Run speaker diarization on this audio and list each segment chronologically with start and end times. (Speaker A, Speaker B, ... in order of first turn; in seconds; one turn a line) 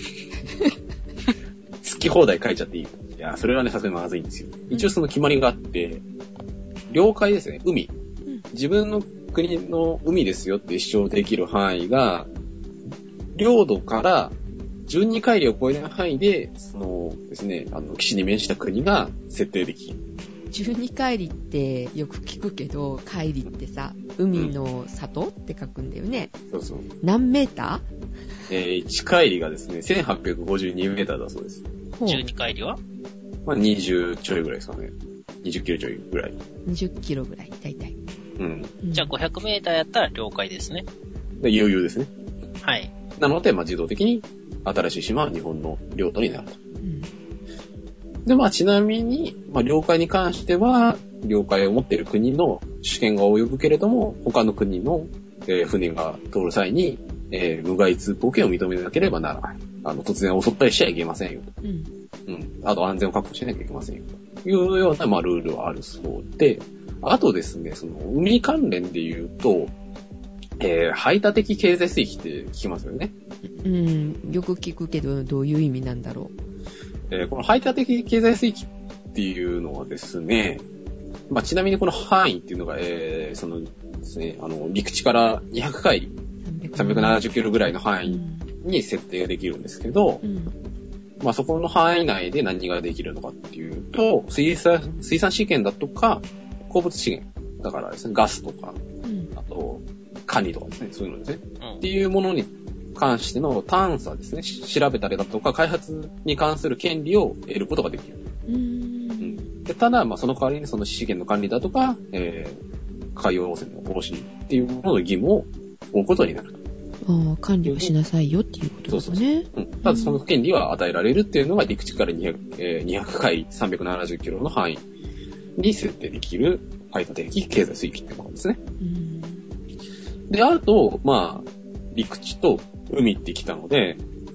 Speaker A: 1.8-6.0
Speaker A: 6.9-7.9
Speaker A: 8.5-12.3
Speaker A: 13.3-14.3
Speaker A: 14.9-20.0
Speaker B: 20.5-26.4
Speaker A: 26.4-26.9
Speaker B: 27.0-27.8
Speaker A: 28.5-31.6
Speaker B: 31.9-32.2
Speaker C: 32.0-32.8
Speaker A: 33.4-36.4
Speaker B: 36.6-38.0
Speaker A: 38.4-38.7
Speaker B: 38.8-39.1
Speaker C: 38.9-40.9
Speaker A: 41.4-42.1
Speaker C: 42.6-42.9
Speaker A: 43.2-46.6
Speaker B: 46.8-47.1
Speaker A: 48.2-61.5
Speaker B: 61.6-61.9
Speaker A: 62.3-69.7
Speaker A: 70.6-73.1
Speaker B: 73.6-76.3
Speaker A: 77.1-80.6
Speaker A: 81.3-86.1
Speaker B: 86.4-87.2
Speaker A: 86.7-90.2
Speaker B: 88.0-88.5
Speaker B: 90.2-90.5
Speaker A: 91.2-98.8
Speaker B: 99.0-99.3
Speaker A: 99.3-108.2
Speaker B: 108.5-109.5
Speaker A: 109.2-112.6
Speaker A: 113.2-116.6
Speaker B: 117.0-120.2
Speaker A: 117.7-117.9
Speaker A: 118.9-124.8
Speaker A: 125.6-128.6
Speaker B: 128.8-129.4
Speaker A: 130.3-134.0